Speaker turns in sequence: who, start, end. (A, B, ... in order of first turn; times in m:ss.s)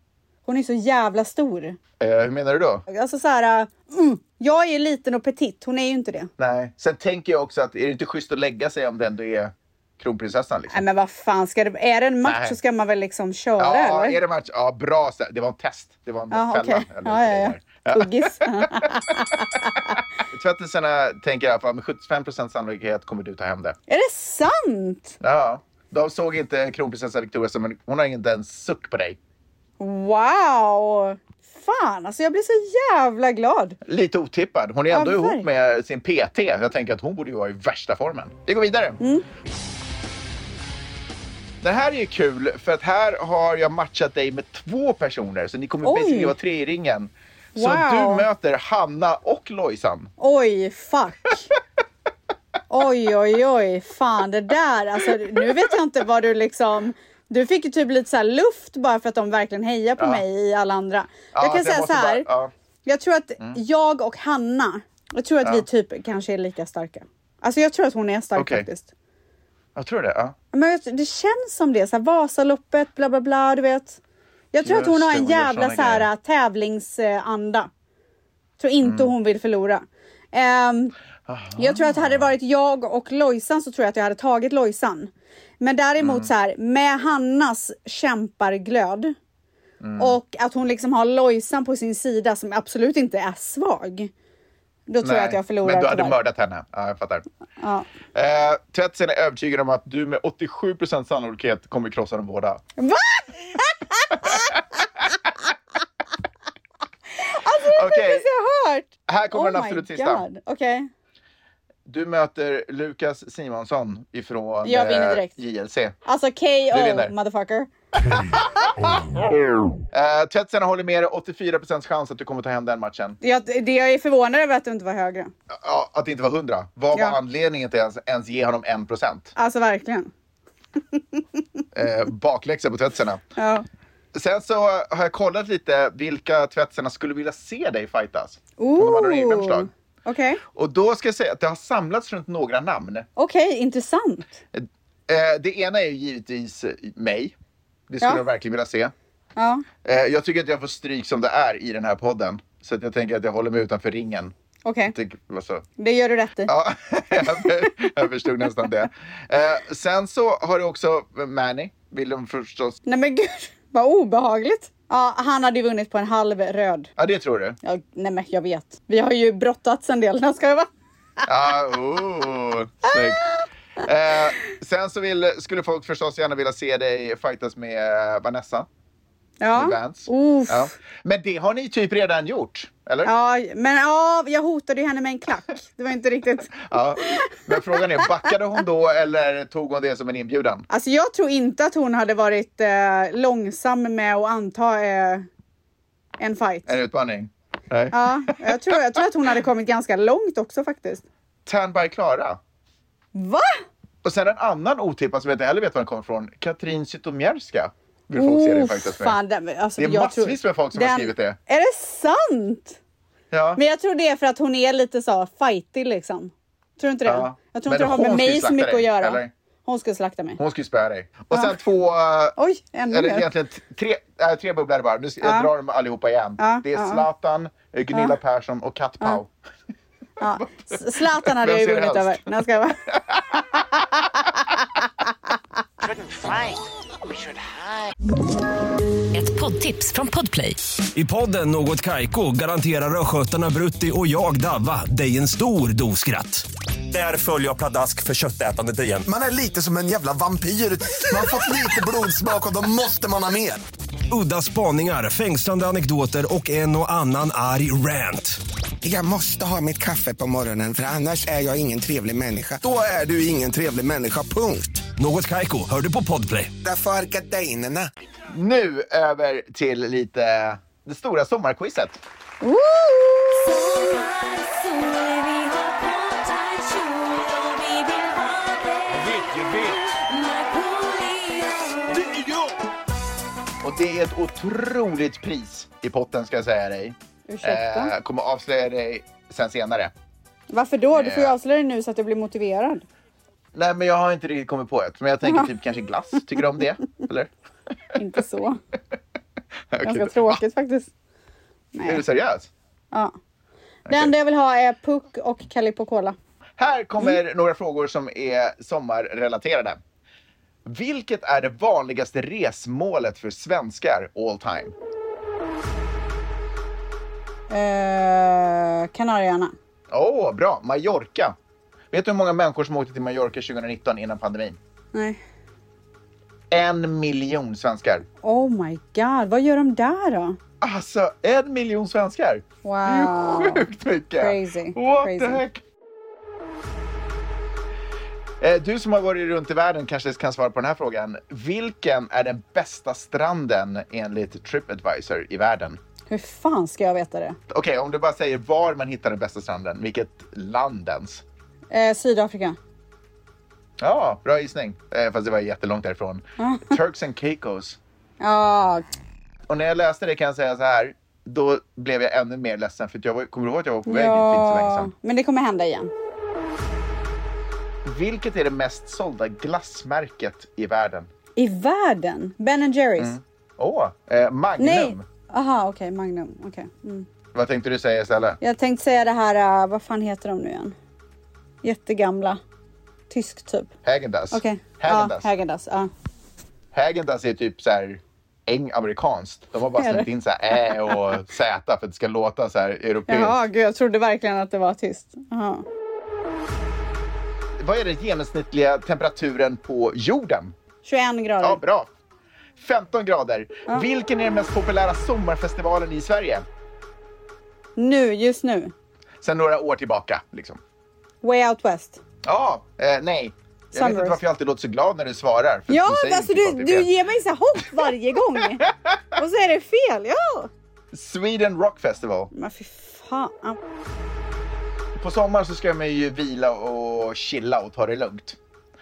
0:00.4-0:01.8 A
0:02.0-0:02.8 B
0:02.9-0:06.3 A
0:06.4-0:10.8 B
0:10.7-0:14.2 A
0:12.2-0:12.6 B
0:13.6-0:18.9 B
0:16.3-0:20.0 A
0:20.3-0:23.8 B
0:23.9-0:25.2 A
0:25.2-0:29.2 B
0:29.8-0:33.8 A
0:33.8-0:39.0 B
0:34.9-0:35.5 A
0:39.0-0:39.2 A
0:41.6-0:50.1 B
0:45.8-0:46.3 A
0:47.5-0:48.3 A
0:50.2-0:51.5 A
0:52.7-1:02.3 A
1:00.0-1:00.2 B
1:01.3-1:02.5 B
1:02.8-1:08.9 A
1:08.4-1:08.6 B
1:09.7-1:10.3 B
1:10.5-1:14.0 A
1:14.5-1:17.7 A
1:14.6-1:16.1 B
1:18.6-1:20.9 A
1:18.8-1:19.1 B
1:21.3-1:22.3 B
1:21.6-1:29.1 A
1:26.0-1:26.3 B
1:29.8-1:30.2 B
1:30.0-1:34.1 A
1:34.9-1:36.2 A
1:35.0-1:37.2 B
1:37.6-1:37.9 A
1:38.1-1:42.6 B
1:42.8-1:44.6 A
1:47.1-1:50.9 A
1:47.7-1:48.3 B
1:49.1-1:50.2 B
1:51.9-1:56.0 B
1:54.6-1:55.3 A
1:56.0-1:57.7 A
1:56.7-1:57.1 B
1:58.1-1:58.4 B
1:59.9-2:03.2 B
2:03.2-2:05.3 A
2:05.5-2:09.3 B
2:06.9-2:07.2 A
2:09.4-2:10.1 A
2:11.0-2:11.2 A
2:11.7-2:13.2 B
2:13.4-2:13.6 A
2:14.1-2:19.7 B
2:18.6-2:20.4 A
2:20.5-2:23.1 B
2:23.2-2:24.4 A
2:24.5-2:27.3 B
2:27.9-2:28.9 B
2:29.4-2:29.6 A
2:29.8-2:34.3 B
2:34.6-2:34.9 A
2:34.9-2:35.6 B
2:35.8-2:36.5 A
2:36.5-2:42.8 B
2:37.4-2:37.6 A
2:42.8-2:46.9 A
2:47.0-2:47.6 B
2:47.6-2:50.7 A
2:51.2-2:53.2 B
2:52.8-2:53.4 A
2:53.8-2:58.7 B
2:59.4-3:00.7 A
2:59.5-3:03.1 B
3:03.0-3:08.3 A
3:06.5-3:10.7 B
3:10.7-3:15.3 A
3:16.2-3:16.8 A
3:16.6-3:18.8 B
3:17.9-3:21.0 A
3:21.4-3:22.4 B
3:23.1-3:23.6 A
3:24.0-3:29.2 B
3:28.1-3:32.8 A
3:29.8-3:31.4 B
3:33.3-3:33.6 B
3:33.6-3:40.4 A
3:37.0-3:39.3 B
3:40.4-3:42.4 B
3:41.3-3:41.6 A
3:42.4-3:43.3 A
3:42.9-3:49.3 B
3:45.2-3:45.5 A
3:46.4-3:47.0 A
3:47.9-3:48.2 A
3:50.2-3:52.8 A
3:50.7-3:52.2 B
3:52.9-3:53.4 B
3:59.1-4:00.6 C
4:00.9-4:09.1 D
4:09.1-4:13.6 E
4:14.1-4:18.4 D
4:18.8-4:24.9 E
4:24.9-4:26.5 D
4:26.6-4:27.9 E
4:28.3-4:32.0 B
4:32.4-4:33.5 A
4:33.4-4:42.3 C
4:43.6-4:49.9 B
4:47.3-4:47.9 A
4:50.5-4:52.8 A
4:50.9-4:51.3 B
4:53.5-4:57.3 B
4:55.2-4:55.5 A
4:58.0-4:58.6 A
4:59.7-5:00.4 B
4:59.8-5:00.9 A
5:01.7-5:02.0 A
5:01.8-5:02.5 B
5:03.9-5:04.1 B
5:03.9-5:06.2 A
5:06.6-5:09.8 B
5:10.6-5:14.7 B
5:17.5-5:19.5 A
5:19.9-5:21.3 B
5:21.9-5:24.6 B
5:24.9-5:25.2 A
5:26.5-5:28.0 B
5:28.2-5:30.4 A
5:30.6-5:35.6 B
5:32.6-5:35.4 A
5:38.4-5:45.8 B
5:46.1-5:47.4 A
5:47.5-5:51.2 B
5:51.7-5:52.6 A
5:53.8-5:57.8 B
5:56.4-5:56.8 A
5:58.2-5:58.9 A
5:59.5-6:04.9 B
6:03.8-6:05.9 A
6:07.8-6:11.1 B
6:11.4-6:13.1 A
6:13.0-6:15.0 B
6:14.6-6:17.1 A
6:17.3-6:18.4 B
6:18.4-6:20.8 A
6:21.6-6:22.4 A
6:23.1-6:23.7 A
6:23.8-6:25.3 B
6:24.3-6:25.9 A
6:26.7-6:33.4 B
6:29.8-6:31.0 A
6:33.1-6:35.6 A
6:37.6-6:40.6 B
6:40.8-6:41.6 A
6:41.4-6:41.9 B
6:42.6-6:46.4 B
6:47.8-6:48.7 A
6:49.2-6:50.6 B
6:51.2-6:52.0 A
6:52.2-6:56.9 B
6:53.7-6:54.2 A
6:55.7-6:58.6 A
6:58.6-6:58.9 B
6:59.2-7:00.5 A
7:00.9-7:02.3 B
7:02.3-7:03.6 A
7:04.9-7:08.4 B